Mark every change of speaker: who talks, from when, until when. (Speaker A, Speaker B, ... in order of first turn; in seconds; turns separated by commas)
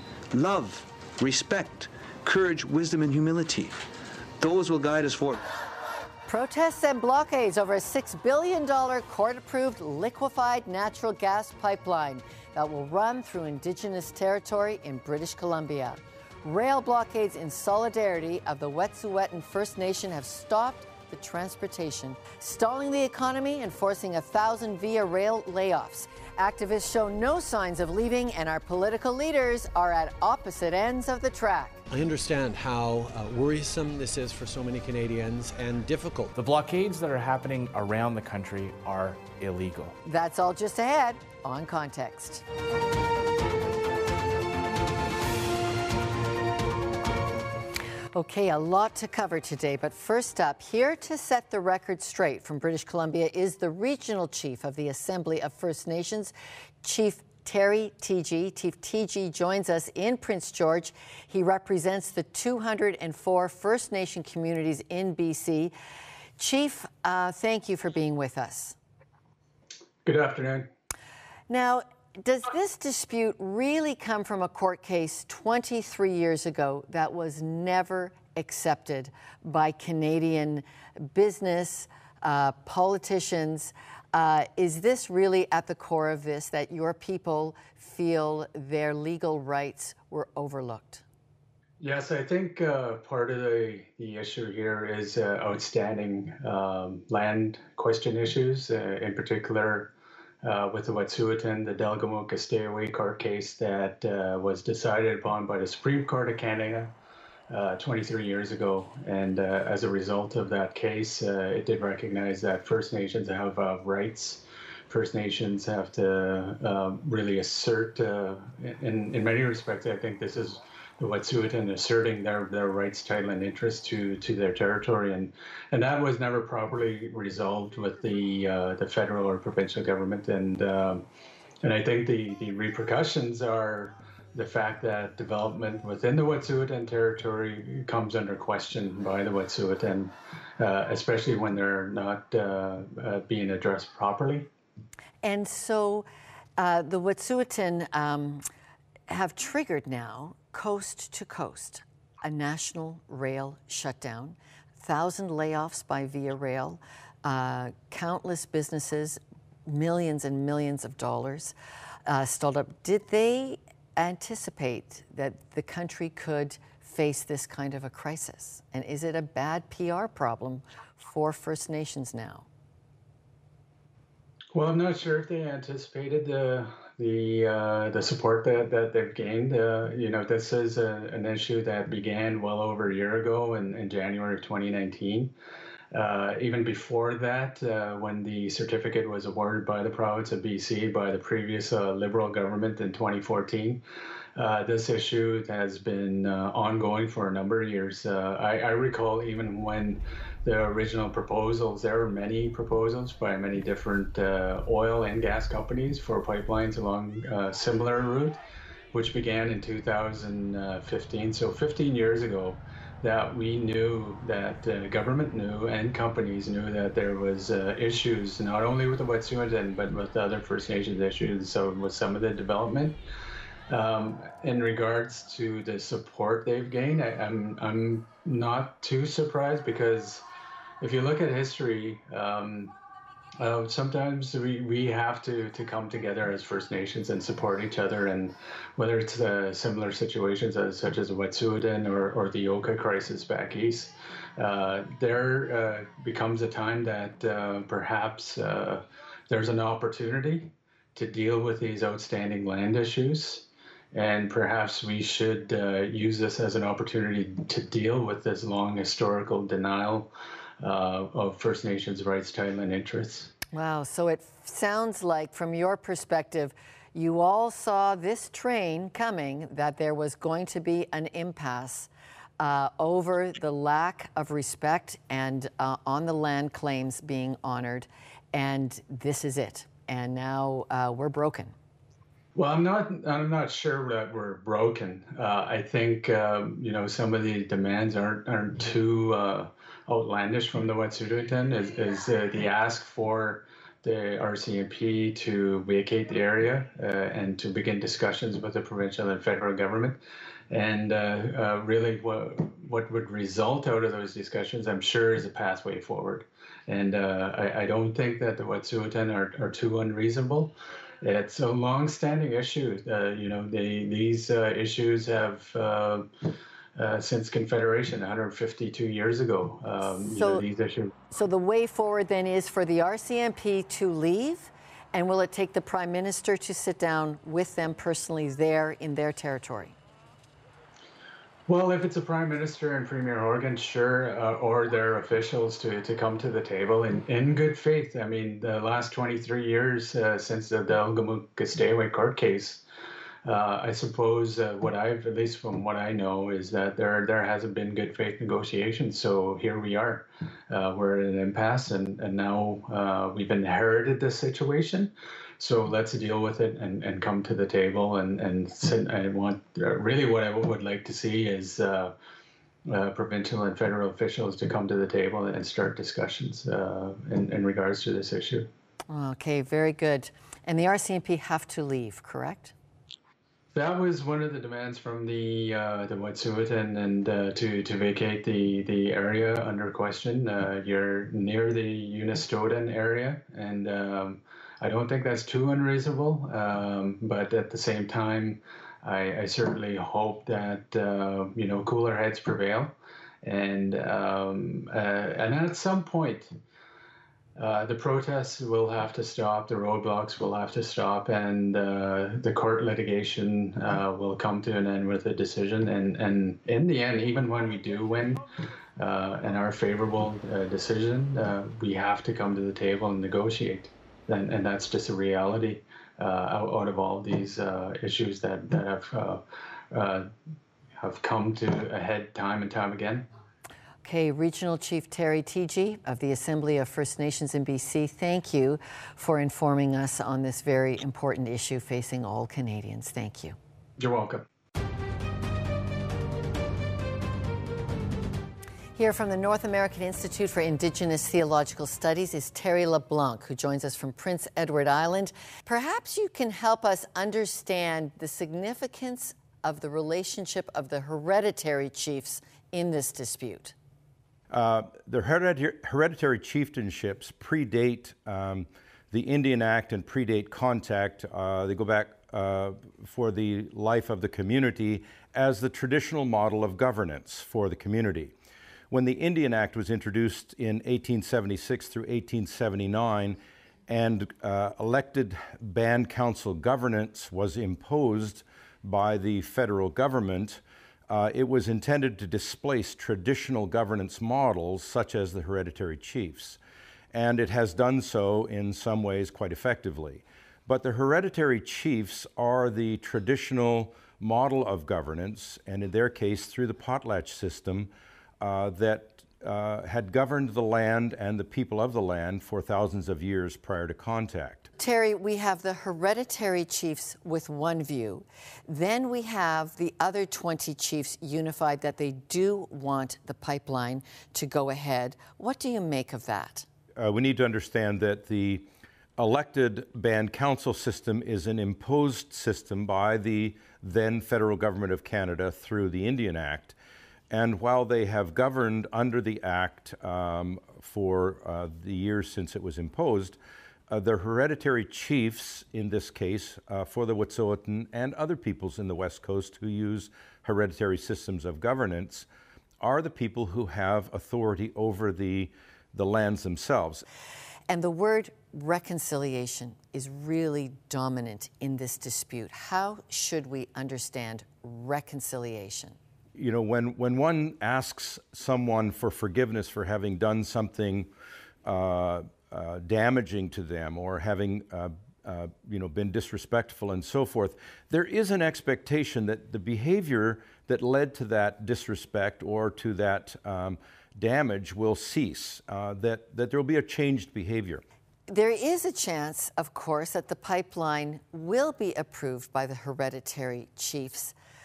Speaker A: 0.3-3.8, Speaker A: 4.4-5.4, Speaker B: 6.3-31.8, Speaker C: 31.9-36.4, Speaker D: 36.4-39.9, Speaker B: 40.0-42.4, Speaker B: 48.1-65.7, Speaker B: 66.4-68.8, Speaker E: 70.0-70.7, Speaker B: 71.5-91.0, Speaker E: 91.8-99.9, Speaker E: 100.4-106.9, Speaker E: 107.5-131.0, Speaker E: 131.6-144.5, Speaker B: 145.2-148.4, Speaker B: 149.1-161.5, Speaker B: 162.1-172.5, Speaker E: 174.5-185.3, Speaker E: 185.9-193.8, Speaker E: 194.4-208.4, Speaker E: 208.9-223.0, Speaker E: 223.7-230.2, Speaker E: 230.8-232.7, Speaker E: 233.4-263.3, Speaker B: 263.5-281.6, Speaker E: 282.4-300.0, Speaker E: 300.5-316.1, Speaker E: 316.8-320.9, Speaker B: 320.0-320.4, Speaker B: 321.1-329.8, Speaker E: 331.5-342.6, Speaker E: 343.2-361.9, Speaker E: 362.7-368.5, Speaker B: 368.9-372.5, Speaker E: 373.5-396.3, Speaker E: 397.4-408.2, Speaker E: 408.8-420.1, Speaker E: 420.8-423.1, Speaker B: 423.8-433.4, Speaker E: 433.8-434.2, Speaker B: 438.8-453.6, Speaker F: 454.3-468.1, Speaker F: 468.7-486.4, Speaker F: 486.9-504.5, Speaker B: 504.6-516.5, Speaker F: 516.8-526.5, Speaker F: 527.1-533.2, Speaker F: 533.7-542.1, Speaker F: 542.6-546.9, Speaker B: 547.5-555.8, Speaker F: 556.2-560.9, Speaker F: 561.5-577.6, Speaker B: 578.1-584.1